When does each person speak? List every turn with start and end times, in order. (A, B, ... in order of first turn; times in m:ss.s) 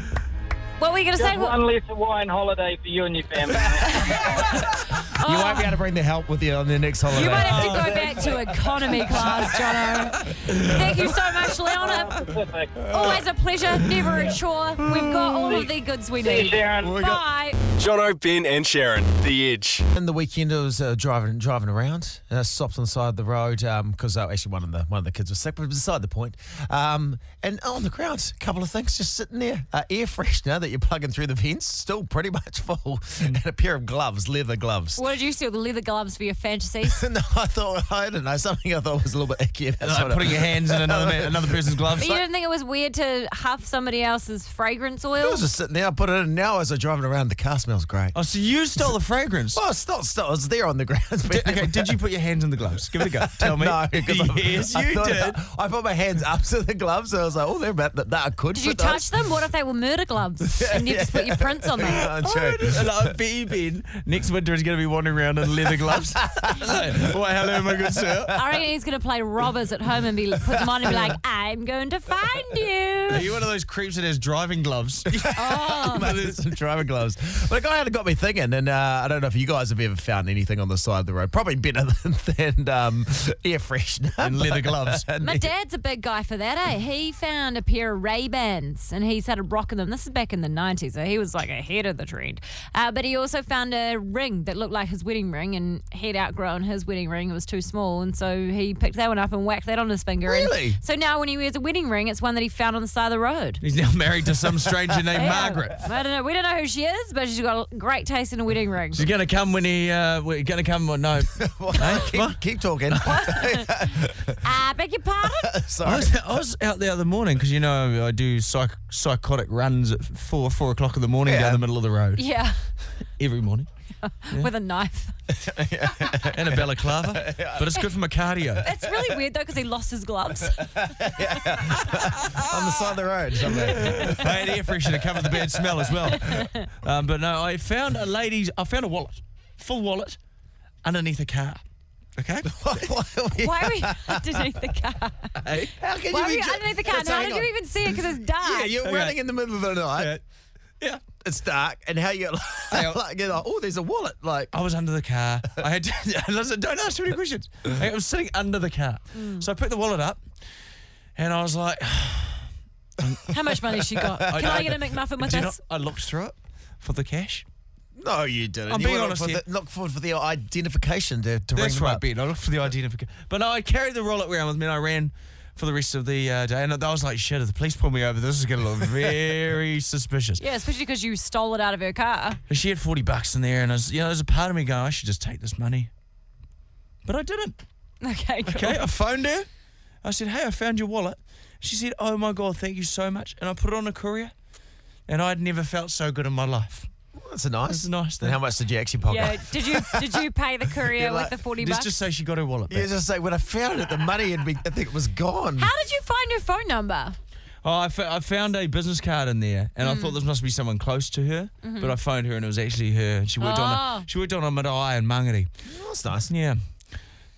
0:00.8-0:01.6 A
0:01.1-0:04.5 B
0:03.9-0:05.7 A
0:05.1-0:08.3 C
0:07.1-0:12.2 A
0:07.3-0:08.4 D
0:10.4-0:11.1 D
0:11.8-0:13.0 B
0:12.9-0:17.6 A
0:16.2-0:17.0 B
0:16.8-0:17.2 C
0:17.8-0:19.8 E
0:19.9-0:35.0 C
0:35.0-0:37.0 A
0:36.8-0:42.2 C
0:39.8-0:42.2 D
0:42.0-0:45.4 A
0:45.2-0:48.2 C
0:48.1-0:49.6 D
0:49.5-0:52.0 C
0:51.3-0:55.4 D
0:53.0-0:59.1 C
0:58.5-1:02.0 A
1:00.4-1:03.1 C
1:02.0-1:08.3 D
1:05.9-1:06.8 C
1:07.8-1:08.3 C
1:08.3-1:13.2 A
1:10.5-1:11.2 C
1:13.1-1:16.4 D
1:15.1-1:25.5 C
1:15.3-1:16.1 A
1:24.2-1:25.1 D
1:25.2-1:43.6 A
1:40.2-1:40.8 C
1:43.6-1:45.8 D
1:45.2-1:49.0 A
1:48.9-1:52.4 D
1:51.3-1:54.4 C
1:52.9-1:53.3 D
1:53.0-1:53.7 A
1:54.4-1:55.5 A
1:55.2-1:56.1 C
1:55.8-2:02.2 D
2:01.2-2:01.6 C
2:02.2-2:02.6 A
2:03.0-2:03.7 D
2:04.0-2:05.1 A
2:05.3-2:07.8 C
2:06.3-2:08.6 D
2:08.6-2:11.9 A
2:08.8-2:09.2 C
2:10.6-2:16.1 C
2:13.5-2:20.2 D
2:16.1-2:16.6 A
2:20.8-2:21.6 D
2:22.2-2:22.5 D
2:22.4-2:24.5 C
2:23.4-2:25.4 A
2:25.4-2:25.7 D
2:25.8-2:27.5 C
2:26.1-2:28.7 A
2:28.2-2:30.2 C
2:28.8-2:29.2 D
2:29.9-2:30.2 D
2:31.2-2:34.5 C
2:32.7-2:33.0 D
2:34.5-2:40.2 D
2:39.1-2:39.4 A
2:41.2-2:42.5 D
2:43.3-2:45.6 A
2:43.5-2:44.8 C
2:44.3-2:47.4 D
2:48.0-2:52.0 C
2:48.7-2:49.4 D
2:51.5-3:00.4 D
3:00.4-3:02.4 A
3:02.5-3:05.9 D
3:07.0-3:07.6 D
3:08.0-3:08.8 A
3:08.4-3:09.5 D
3:10.0-3:14.3 D
3:15.1-3:16.9 D
3:17.2-3:20.2 C
3:17.7-3:18.4 D
3:19.1-3:21.9 A
3:20.8-3:21.3 C
3:21.6-3:22.9 D
3:22.7-3:25.7 C
3:25.6-3:27.2 A
3:27.6-3:35.5 D
3:29.8-3:30.2 A
3:31.6-3:31.9 A
3:33.4-3:34.1 A
3:35.6-3:36.3 C
3:36.3-3:36.6 D